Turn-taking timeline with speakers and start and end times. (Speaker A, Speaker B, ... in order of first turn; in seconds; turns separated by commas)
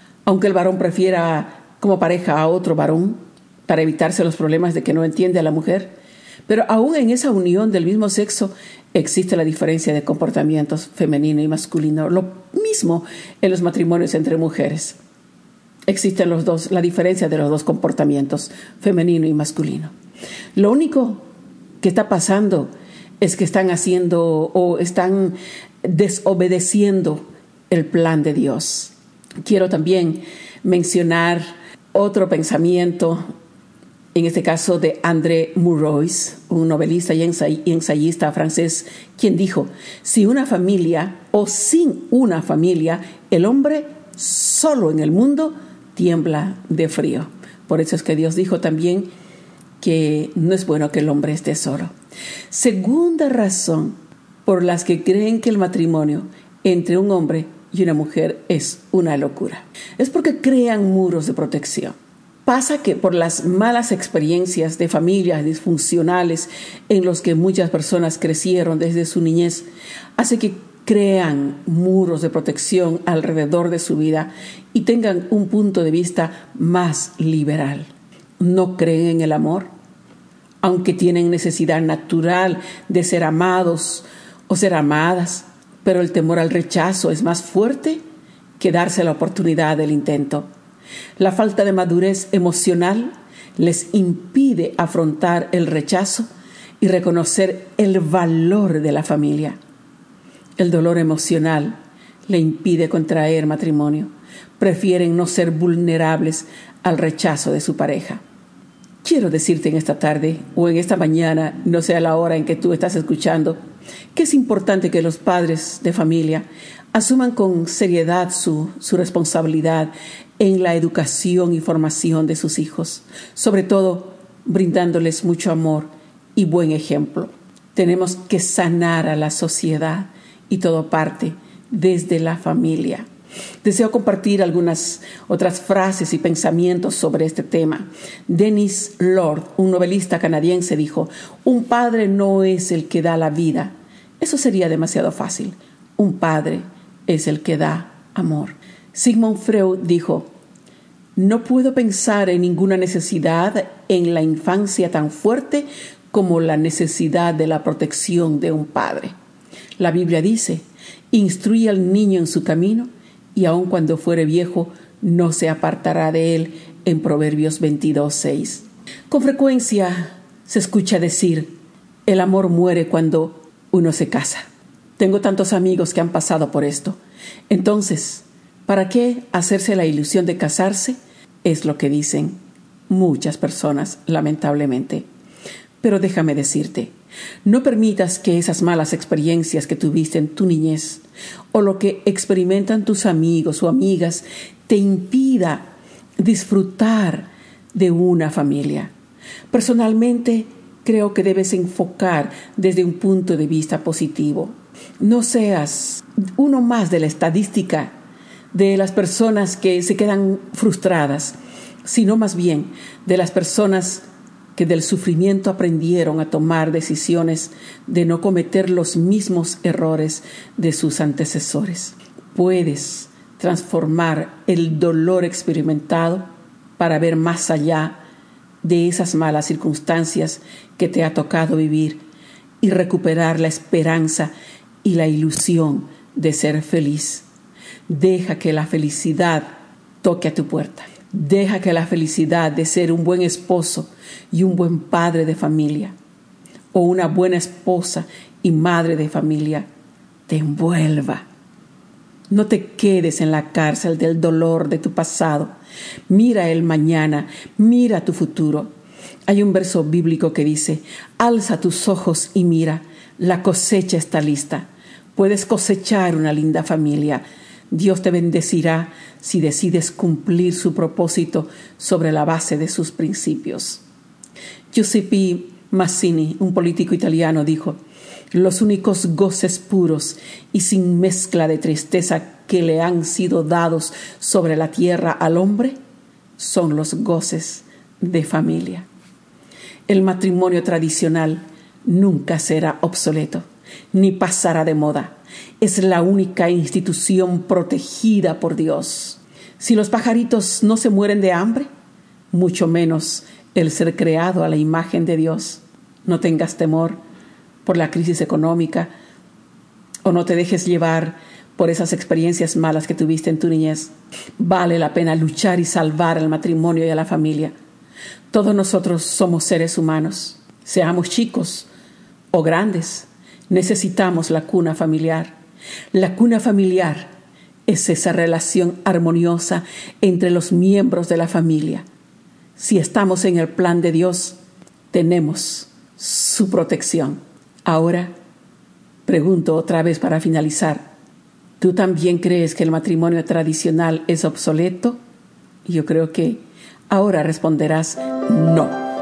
Speaker A: 0.2-15.0, Speaker A: 15.9-19.9, Speaker A: 20.6-33.3, Speaker A: 34.1-49.1, Speaker A: 49.8-51.9, Speaker A: 52.5-79.7, Speaker A: 80.6-88.0, Speaker A: 88.6-90.5, Speaker A: 91.2-96.3, Speaker A: 96.8-99.6, Speaker A: 100.6-108.2, Speaker A: 109.0-113.6, Speaker A: 114.1-133.1, Speaker A: 133.6-150.3, Speaker A: 151.2-159.1, Speaker A: 159.8-174.4, Speaker A: 175.0-185.1, Speaker A: 185.8-198.9, Speaker A: 199.5-207.9, Speaker A: 208.5-226.2, Speaker A: 226.8-228.0, Speaker A: 228.6-232.0, Speaker A: 232.6-234.3, Speaker A: 234.8-237.3, Speaker A: 237.9-239.5, Speaker A: 240.0-245.9, Speaker A: 246.7-249.7, Speaker A: 250.3-251.2, Speaker A: 252.3-255.5, Speaker A: 256.1-258.7, Speaker A: 259.3-273.8, Speaker A: 274.7-277.8, Speaker A: 278.3-285.8, Speaker A: 286.4-288.9, Speaker A: 289.9-301.7, Speaker A: 302.3-307.0, Speaker A: 307.6-308.9, Speaker A: 310.0-317.5, Speaker A: 318.3-321.7, Speaker A: 322.3-325.4, Speaker A: 325.9-327.1, Speaker A: 327.7-331.8, Speaker A: 332.6-334.4, Speaker A: 334.9-338.1, Speaker A: 339.1-340.9, Speaker A: 341.6-345.0, Speaker A: 345.6-348.8